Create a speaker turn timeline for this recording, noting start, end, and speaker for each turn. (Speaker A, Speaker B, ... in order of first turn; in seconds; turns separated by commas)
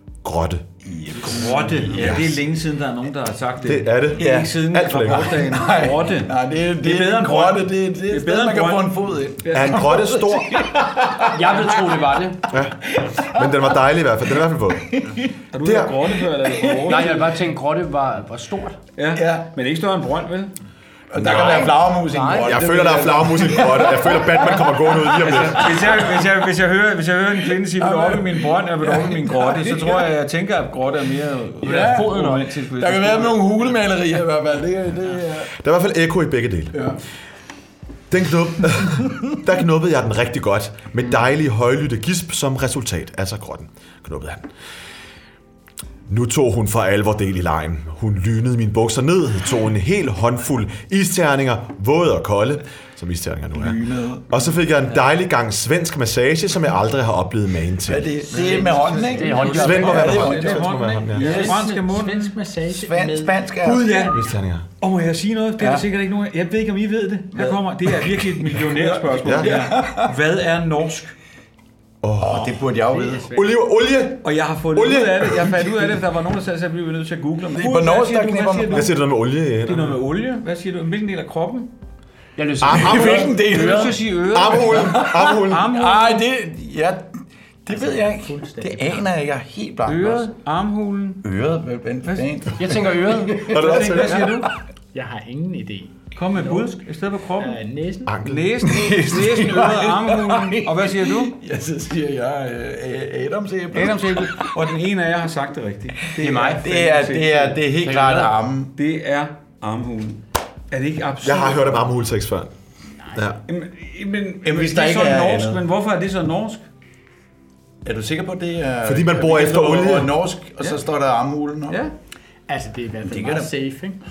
Speaker A: 0.2-0.7, Speaker B: 0.8-2.4, Speaker C: 1.2-10.0, Speaker A: 1.9-2.4, Speaker A: 3.6-5.5, Speaker B: 4.2-4.5, Speaker B: 5.1-12.0, Speaker A: 9.5-10.7, Speaker D: 11.2-12.4, Speaker A: 12.5-15.1, Speaker B: 13.0-13.4, Speaker B: 14.9-15.3, Speaker C: 15.5-17.4, Speaker A: 15.6-16.1, Speaker B: 16.5-17.1, Speaker D: 16.9-18.8, Speaker C: 19.0-20.5, Speaker B: 19.1-19.5, Speaker B: 21.1-26.3, Speaker A: 21.2-21.7, Speaker D: 21.2-22.7, Speaker A: 22.4-26.0, Speaker C: 25.2-33.7, Speaker B: 27.6-30.1, Speaker D: 31.6-32.5, Speaker B: 31.6-32.1, Speaker B: 32.7-35.5, Speaker A: 35.5-36.9, Speaker B: 36.7-37.0, Speaker A: 38.1-44.5, Speaker A: 46.1-58.1, Speaker B: 53.6-54.2, Speaker B: 57.9-60.6, Speaker D: 59.1-60.2, Speaker C: 59.2-62.4, Speaker A: 59.5-61.4, Speaker E: 61.1-64.2, Speaker B: 61.2-61.6, Speaker B: 62.6-64.1, Speaker C: 63.6-64.2, Speaker A: 64.1-64.7, Speaker C: 64.8-71.1, Speaker B: 68.1-70.1, Speaker A: 69.2-69.7, Speaker A: 72.0-72.6, Speaker B: 72.2-73.4, Speaker E: 73.0-73.4, Speaker A: 73.3-75.5, Speaker C: 74.2-79.0, Speaker B: 77.5-78.9, Speaker A: 78.7-80.0, Speaker C: 79.7-81.7, Speaker D: 82.4-83.9, Speaker A: 82.6-83.3, Speaker B: 82.8-84.1, Speaker C: 83.2-86.2, Speaker A: 84.3-85.7, Speaker B: 84.7-90.3, Speaker E: 87.7-89.1, Speaker C: 89.9-91.2, Speaker B: 91.2-94.5, Speaker C: 92.0-92.4, Speaker D: 92.6-94.0, Speaker A: 93.5-94.4, Speaker C: 93.7-94.5, Speaker E: 94.9-96.8, Speaker C: 96.2-97.6, Speaker E: 97.4-98.2, Speaker A: 98.1-98.8, Speaker C: 98.2-101.3, Speaker B: 98.7-104.5, Speaker C: 103.7-107.6, Speaker D: 106.2-106.7, Speaker B: 106.6-108.7, Speaker D: 107.8-108.4, Speaker C: 108.8-111.9, Speaker A: 111.2-112.5, Speaker A: 113.1-113.4, Speaker C: 113.5-116.7, Speaker B: 114.4-115.6, Speaker B: 117.8-121.8, Speaker A: 118.8-120.2, Speaker C: 121.7-121.9, Speaker E: 122.5-124.0, Speaker B: 123.1-123.5